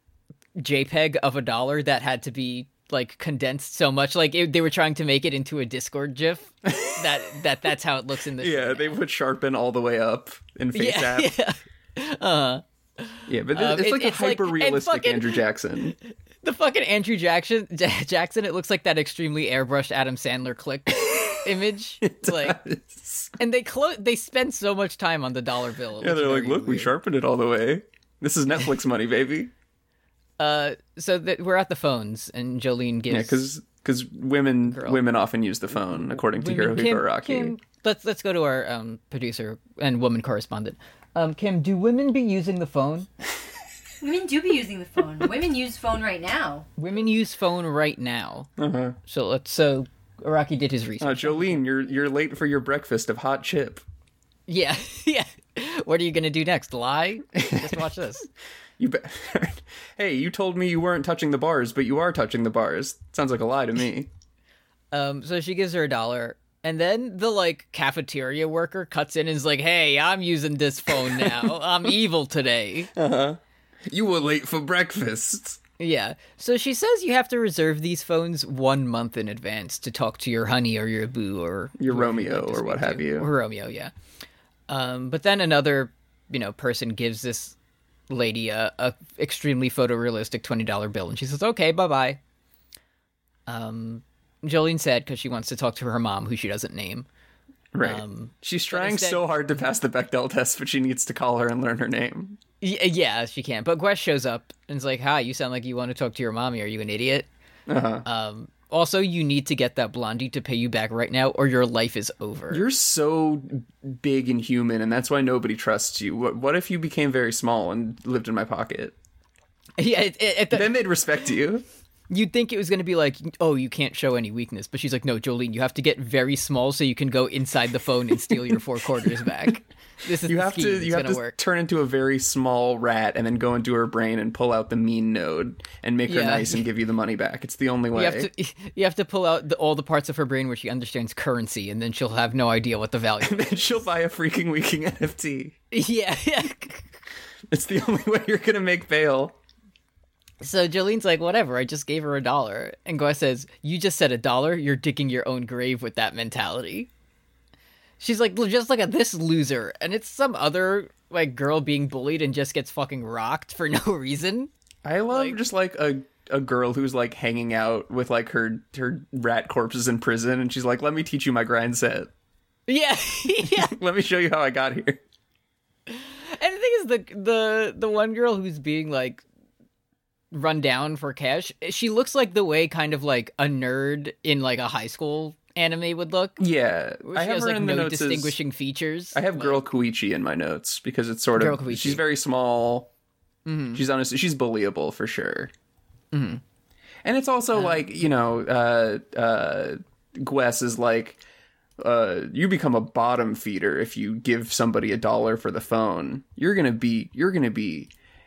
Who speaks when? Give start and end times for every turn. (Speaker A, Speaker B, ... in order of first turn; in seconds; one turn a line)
Speaker A: 0.6-9.0
Speaker B: 6.7-7.1
Speaker B: 8.4-11.3
Speaker A: 10.8-15.4
Speaker B: 13.3-16.0
Speaker A: 16.4-22.6
Speaker B: 22.0-23.3
Speaker A: 23.4-26.9
Speaker B: 26.0-29.5
Speaker A: 30.4-33.5
Speaker B: 33.1-37.5
Speaker A: 34.7-35.0
Speaker A: 36.3-43.1
Speaker C: 44.0-46.7
Speaker A: 46.8-48.5
Speaker B: 48.6-49.0
Speaker A: 49.1-51.6
Speaker B: 51.0-53.8
Speaker A: 54.5-58.3
Speaker B: 57.4-57.8
Speaker B: 58.8-64.1
Speaker A: 64.9-72.9
Speaker B: 71.1-71.5
Speaker B: 73.0-75.6
Speaker A: 75.8-83.9
Speaker B: 81.8-83.3
Speaker A: 84.7-87.6
Speaker A: 88.1-92.2
Speaker A: 93.5-97.1
Speaker B: 97.7-102.4
Speaker A: 97.8-99.3
Speaker A: 102.6-107.3
Speaker B: 107.7-108.0
Speaker A: 108.0-112.6
Speaker B: 112.5-119.0
Speaker A: 119.8-120.7
Speaker B: 120.5-121.7
Speaker A: 122.1-131.4
Speaker B: 130.2-138.3
Speaker A: 136.1-136.6
Speaker A: 137.9-143.8
Speaker B: 143.2-145.6
Speaker A: 145.7-146.9
Speaker B: 147.5-149.3
Speaker A: 150.4-156.9
Speaker A: 158.0-164.5
Speaker B: 164.8-172.1
Speaker A: 165.1-165.4
Speaker A: 172.7-173.8
Speaker B: 173.4-175.0
Speaker A: 175.9-179.2
Speaker A: 180.3-186.4
Speaker B: 186.4-188.4
Speaker A: 187.0-189.6
Speaker B: 189.1-192.9
Speaker A: 191.4-192.0
Speaker A: 193.5-193.8
Speaker B: 193.7-195.5
Speaker A: 196.1-196.4
Speaker B: 197.0-201.2
Speaker A: 197.5-197.8
Speaker B: 201.8-207.9